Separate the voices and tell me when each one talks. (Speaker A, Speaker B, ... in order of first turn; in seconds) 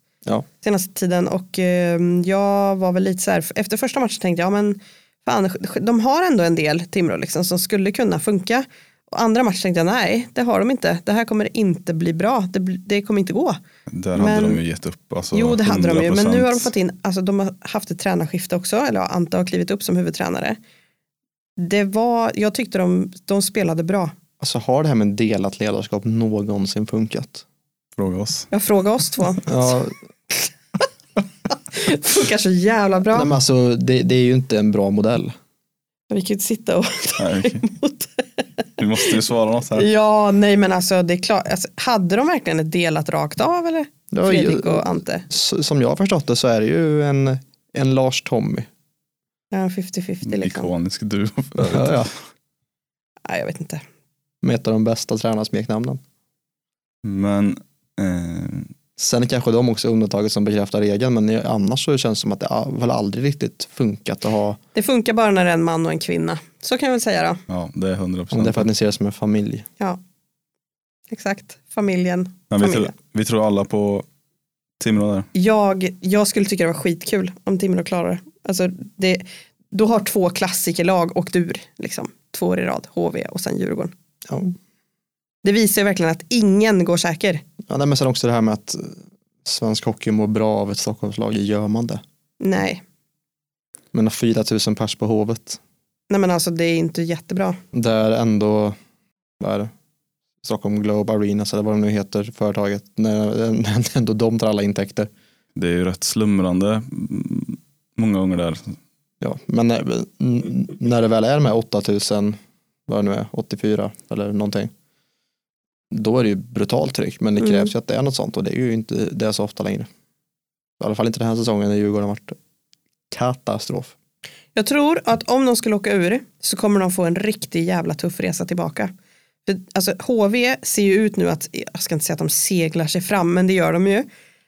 Speaker A: 0.6-13.6, 14.2-14.6, 15.3-20.6, 21.6-24.1, 28.5-29.8, 31.7-33.3, 36.1-38.2, 39.8-45.2, 49.5-50.7, 53.3-53.8, 64.8-67.4, 71.1-72.9, 75.3-83.9, 85.4-87.4, 92.4-92.8, 96.1-97.6, 117.4-117.7, 124.5-128.9, 129.5-134.1
Speaker B: 13.9-16.7, 28.0-28.5, 37.2-37.6, 38.8-39.9, 50.2-52.1, 57.0-58.7, 67.5-68.7, 72.5-74.0, 74.8-75.3, 105.6-108.8
Speaker C: 24.4-27.4, 29.5-29.9, 33.1-35.4, 44.1-48.7, 51.6-52.1, 54.4-56.0, 59.0-64.6, 68.3-69.7, 84.3-84.5, 87.7-92.0, 93.9-95.6, 97.7-98.8, 99.4-99.7, 100.4-105.1, 109.2-114.7, 115.9-119.9, 120.8-122.4, 123.1-123.9